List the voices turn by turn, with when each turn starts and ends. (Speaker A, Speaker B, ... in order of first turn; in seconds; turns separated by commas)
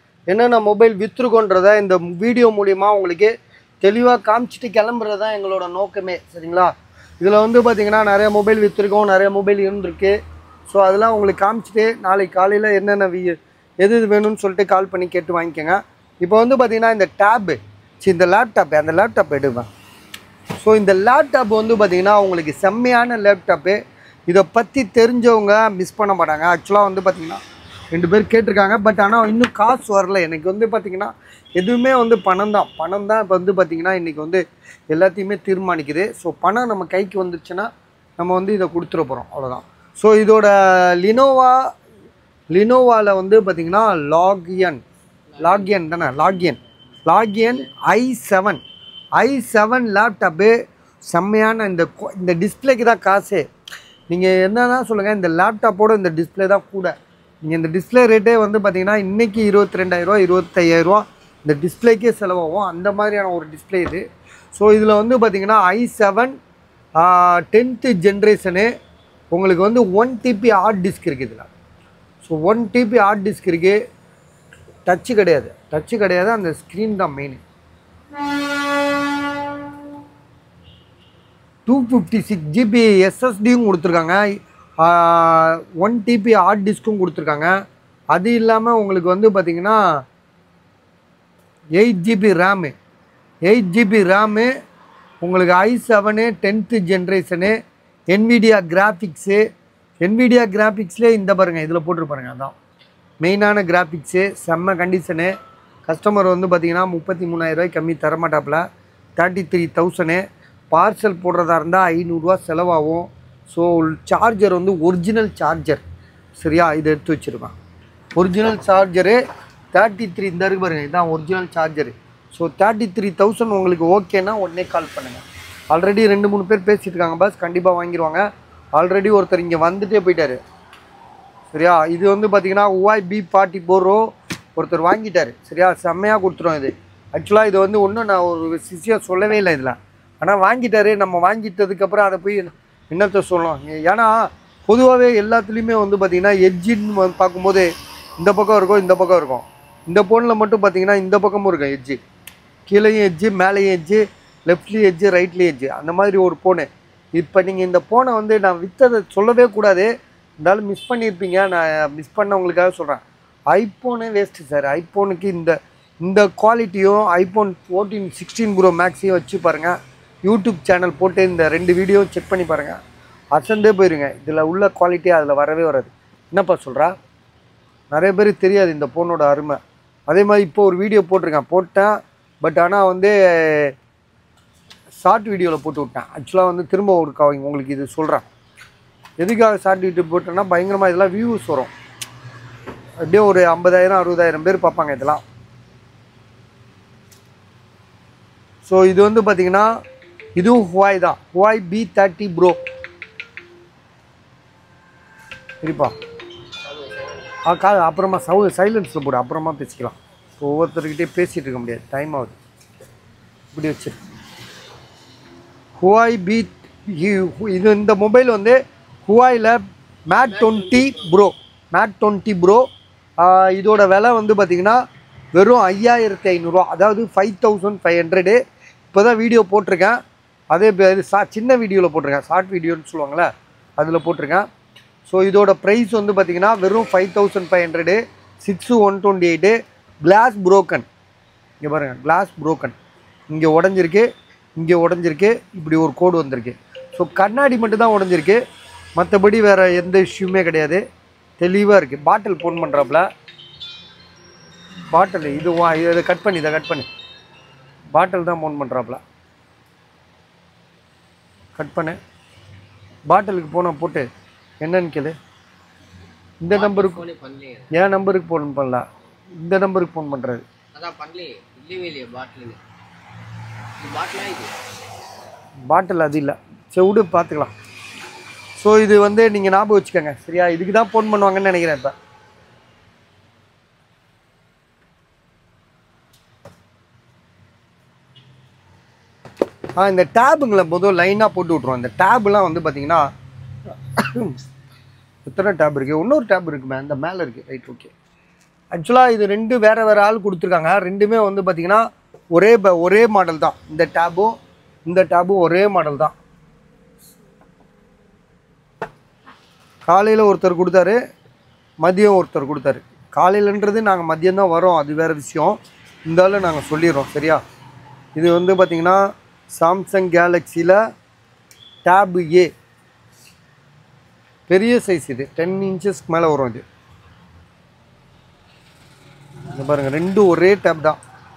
Speaker A: 0.3-10.2, Speaker A: 10.7-19.7, Speaker A: 20.6-27.4, Speaker A: 27.9-37.7, Speaker A: 38.2-41.7, Speaker A: 42.5-44.8, Speaker B: 45.3-46.6, Speaker A: 45.4-48.6, Speaker B: 47.4-47.7, Speaker A: 49.2-50.5, Speaker A: 51.1-53.5, Speaker A: 54.1-64.0, Speaker A: 64.5-66.3, Speaker A: 67.0-68.7, Speaker A: 69.3-71.5, Speaker A: 72.2-73.8, Speaker A: 74.9-77.4, Speaker A: 81.7-84.2, Speaker A: 84.8-87.5, Speaker A: 88.1-89.8, Speaker A: 91.8-92.7, Speaker A: 93.5-94.5, Speaker A: 95.2-97.5, Speaker A: 98.1-99.5, Speaker A: 100.0-102.5, Speaker A: 103.2-105.3, Speaker A: 105.9-108.6, Speaker A: 109.2-115.8, Speaker A: 116.4-117.5, Speaker A: 118.2-119.2, Speaker A: 119.7-128.2, Speaker A: 128.8-130.4, Speaker A: 131.5-134.1, Speaker A: 134.6-147.7, Speaker A: 148.2-152.0, Speaker A: 152.7-159.9, Speaker A: 160.4-172.8, Speaker A: 173.3-176.9, Speaker A: 177.9-183.7, Speaker A: 185.0-188.3, Speaker A: 189.2-191.7, Speaker A: 193.1-195.2, Speaker A: 198.6-199.7, Speaker A: 200.4-202.6, Speaker A: 205.6-205.9, Speaker B: 206.6-207.4, Speaker A: 207.4-212.4, Speaker A: 213.5-214.0, Speaker A: 215.8-222.7, Speaker B: 220.2-221.2, Speaker A: 223.2-224.8, Speaker A: 225.3-228.4, Speaker A: 228.9-230.0, Speaker A: 230.5-234.5, Speaker A: 235.1-240.9, Speaker A: 241.6-242.8, Speaker A: 243.3-244.1, Speaker A: 244.6-248.4, Speaker A: 249.0-250.8, Speaker A: 251.4-253.1, Speaker A: 254.9-256.9, Speaker A: 257.9-259.0, Speaker A: 261.6-262.0, Speaker A: 263.1-264.1, Speaker A: 264.6-265.2, Speaker A: 266.4-267.0, Speaker B: 266.5-267.7, Speaker A: 267.7-268.9, Speaker A: 269.4-270.4, Speaker B: 270.7-272.6, Speaker B: 273.8-274.5, Speaker A: 275.7-277.5, Speaker A: 278.6-281.9, Speaker A: 289.8-293.1, Speaker A: 294.0-294.4, Speaker A: 295.2-297.9, Speaker A: 298.7-306.1, Speaker A: 309.9-311.0, Speaker A: 311.8-315.6, Speaker A: 316.1-317.4, Speaker A: 318.2-319.0, Speaker A: 319.6-320.8, Speaker A: 321.9-322.5, Speaker A: 324.5-326.6, Speaker A: 329.5-331.0